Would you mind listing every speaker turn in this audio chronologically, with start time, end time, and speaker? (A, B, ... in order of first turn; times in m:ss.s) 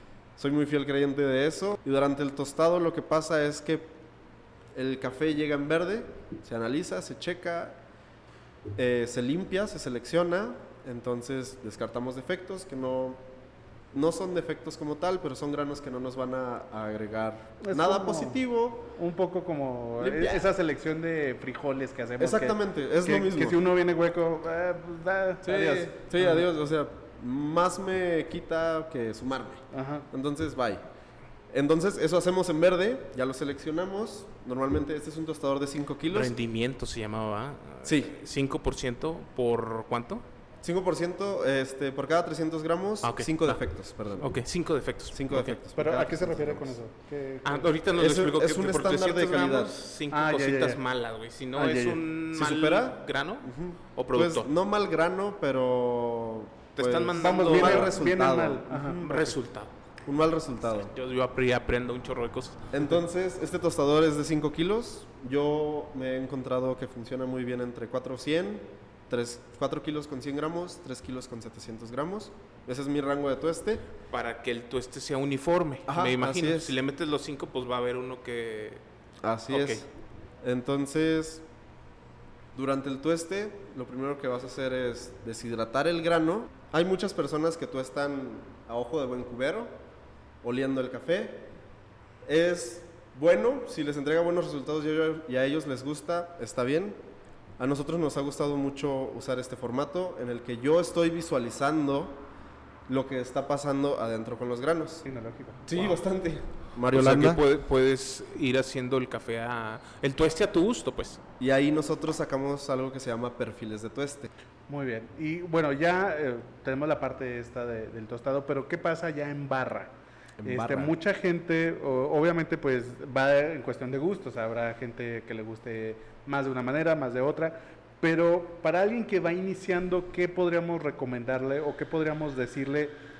0:00.4-0:03.9 A
0:04.7-0:07.8 A
0:08.8-0:13.2 A
0:13.9-0:18.9 A
0:17.6-0:18.4 B
0:18.9-0:26.4 B
0:20.0-0:20.4 A
0:22.2-0:23.6 A
0:25.4-0:30.8 A
0:29.7-0:30.1 B
0:31.5-0:36.3 A
0:36.1-0:40.2 C
0:37.8-0:38.2 A
0:40.6-0:44.4 A
0:43.0-0:43.6 C
0:44.1-0:45.6 C
0:45.1-0:46.8 A
0:45.7-0:47.7 B
0:47.4-0:54.5 C
0:47.9-0:49.7 A
0:50.1-0:50.8 B
0:51.5-0:52.0 B
0:52.3-0:59.3 A
0:56.8-0:57.9 C
0:57.2-0:59.4 B
0:59.0-0:59.7 C
1:00.0-1:00.9 A
1:00.6-1:02.8 C
1:02.7-1:13.9 A
1:14.1-1:18.8 C
1:15.9-1:16.7 A
1:19.2-1:19.9 A
1:19.5-1:19.8 C
1:20.4-1:21.4 A
1:22.5-1:29.7 A
1:30.4-1:31.5 A
1:32.2-1:37.0 A
1:37.6-1:42.2 A
1:42.9-1:45.0 A
1:45.0-1:45.9 B
1:45.7-1:47.4 A
1:46.9-1:51.2 C
1:51.4-1:54.3 A
1:54.7-1:59.9 B
2:00.4-2:00.9 A
2:00.4-2:12.9 B